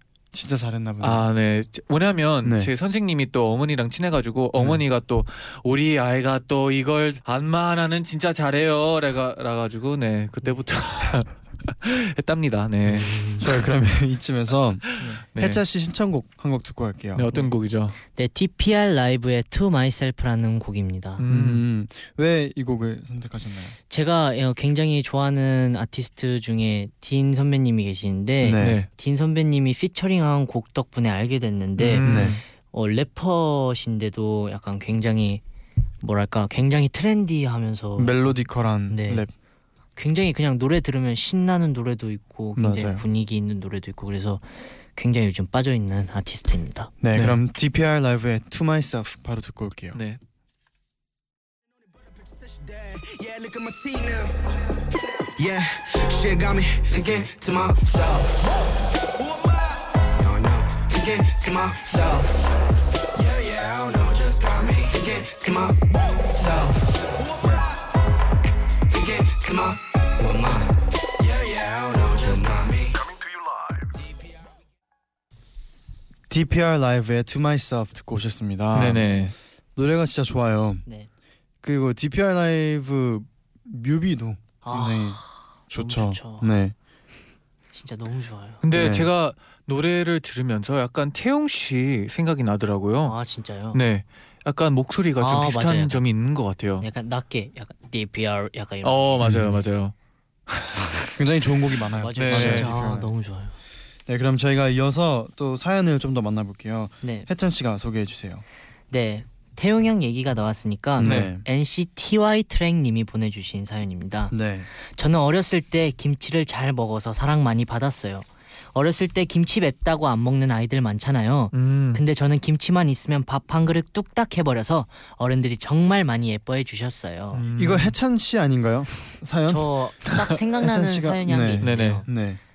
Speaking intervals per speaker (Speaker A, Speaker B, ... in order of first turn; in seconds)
Speaker A: 0.3-1.2, 2.4-2.7, 4.5-4.8, 13.4-17.3, 21.3-23.8, 28.4-28.8, 32.0-32.4, 38.0-39.3, 42.5-43.0, 47.0-50.0, 76.3-79.1, 79.8-80.8, 81.6-86.7, 88.7-89.1, 99.2-99.6, 101.1-103.1, 104.1-108.4, 111.0-111.4, 114.3-114.7, 127.5-132.4
Speaker B: 1.0-13.1, 14.9-15.6, 17.1-17.9, 21.2-21.6, 28.6-28.9, 31.8-32.4, 49.9-50.2, 78.7-79.3, 88.6-93.2, 93.7-96.8, 98.8-99.9, 100.5-101.0, 102.2-102.7, 111.0-111.3, 121.5-122.0, 127.3-127.9, 131.6-132.0
Speaker C: 12.8-13.5, 18.1-21.2, 23.9-35.4, 36.0-39.2, 40.0-44.4, 44.9-46.9, 84.6-86.5, 87.7-88.6, 93.0-93.8, 95.2-96.0, 96.8-99.3, 102.0-103.5, 107.0-107.3, 108.9-127.4, 129.5-132.1
Speaker D: 52.0-54.6, 55.4-62.5, 63.1-67.7, 68.9-73.1